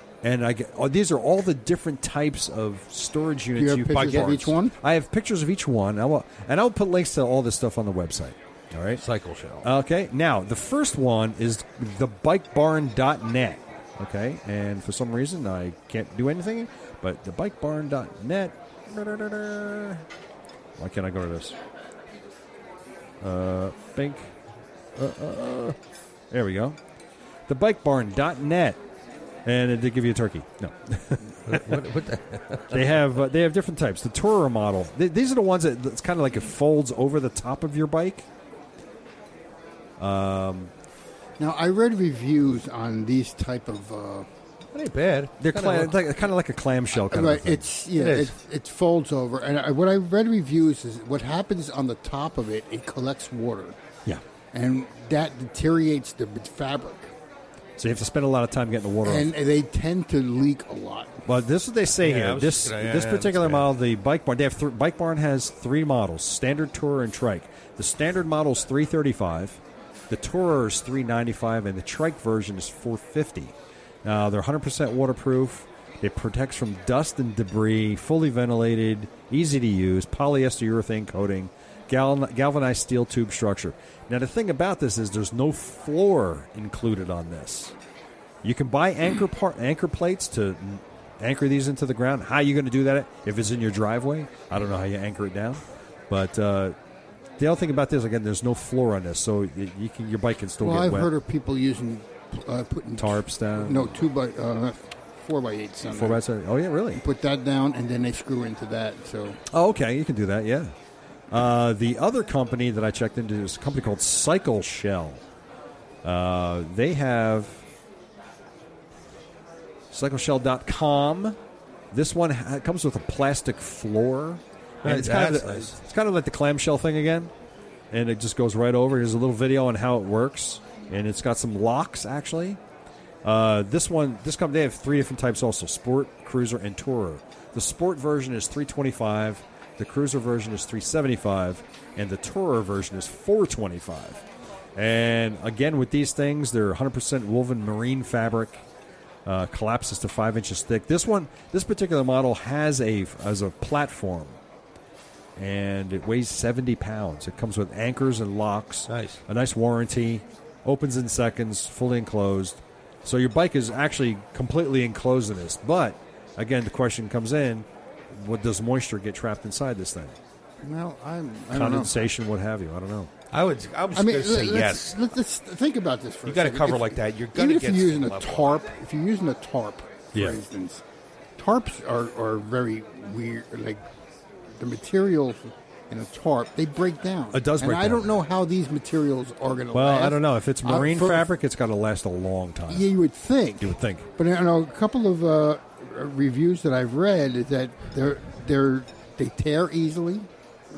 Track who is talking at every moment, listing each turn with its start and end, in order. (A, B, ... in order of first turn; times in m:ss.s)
0:00.2-0:09.0 A
0:03.6-0:04.8 B
0:03.9-0:04.4 C
0:09.0-0:09.7 C
0:09.6-0:20.0 A
0:20.8-0:21.6 A
0:23.2-0:24.3 A
0:25.0-0:25.8 A
0:26.3-0:26.8 A
0:27.5-0:28.8 A
0:29.4-0:31.8 A
0:31.5-0:32.9 C
0:32.7-0:38.3 A
0:40.0-0:40.7 A
0:41.4-0:44.3 B
0:44.7-0:46.0 C
0:45.4-0:47.7 A
0:47.0-0:53.8 B
0:48.0-0:48.3 C
0:54.5-0:57.1 B
0:57.8-0:59.3 A
0:59.0-1:01.2 B
1:01.3-1:27.8 A
1:02.0-1:03.7 C
1:28.4-1:36.8 A
1:37.4-1:41.1 A
1:40.6-1:46.2 B
1:43.0-1:44.0 A
1:45.9-1:47.0 A
1:46.9-1:49.4 B
1:49.5-1:50.7 A
1:51.3-1:55.2 A
1:56.0-1:57.6 A
1:59.9-2:01.4 A
2:01.9-2:07.3 A
2:04.8-2:05.8 C
2:07.9-2:12.6 A
2:13.2-2:24.2 A
2:24.8-2:28.6 A
2:29.3-2:34.4 A
2:35.4-2:50.2 A
2:38.9-2:39.2 C
2:50.6-2:52.0 B
2:51.5-2:53.1 A
2:53.3-2:55.0 C
2:53.9-3:00.8 B
2:56.2-2:58.6 C
3:00.1-3:00.4 A
3:01.4-3:03.8 B
3:04.6-3:11.3 B
3:07.3-3:08.1 A
3:09.7-3:12.9 A
3:12.7-3:20.3 B
3:13.6-3:14.1 A